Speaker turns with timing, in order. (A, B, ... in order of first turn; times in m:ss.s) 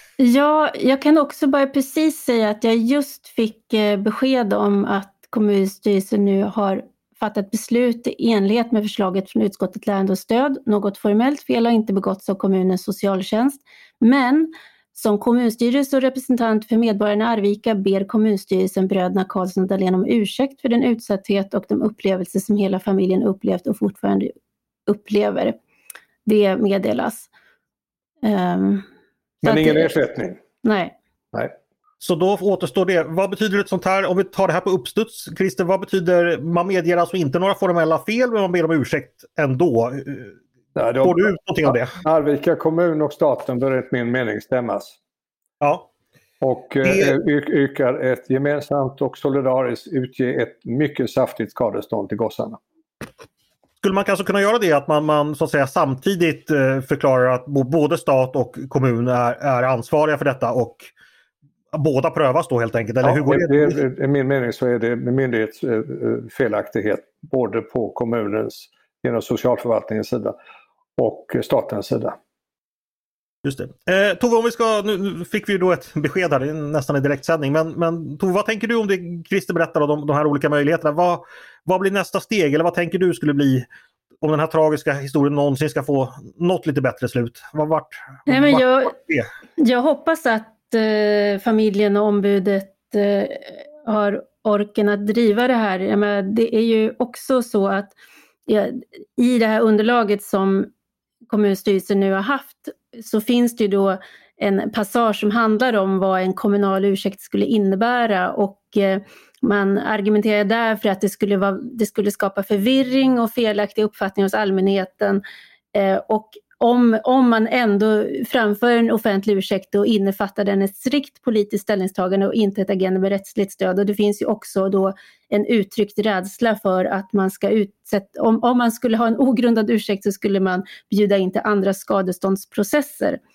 0:00.2-0:24.3 A
0:24.9-0:25.6 A
0:26.3-0:27.3 A
0:28.2-0:28.8 A
0:29.4-0:31.0 A
0:29.4-0:30.4 B
0:32.0-0:40.4 C
0:40.8-0:45.0 B
0:41.0-0:42.0 C
0:45.6-0:45.9 C
0:46.4-0:52.6 B
0:46.8-0:47.1 C
0:53.8-1:00.9 C
1:01.7-1:03.8 C
1:03.0-1:10.4 B
1:11.0-1:12.2 B
1:13.4-1:23.6 C
1:24.2-1:29.3 C
1:28.3-1:29.0 A
1:29.6-1:37.9 A
1:38.5-1:40.7 A
1:41.3-1:55.2 A
1:55.7-2:13.2 A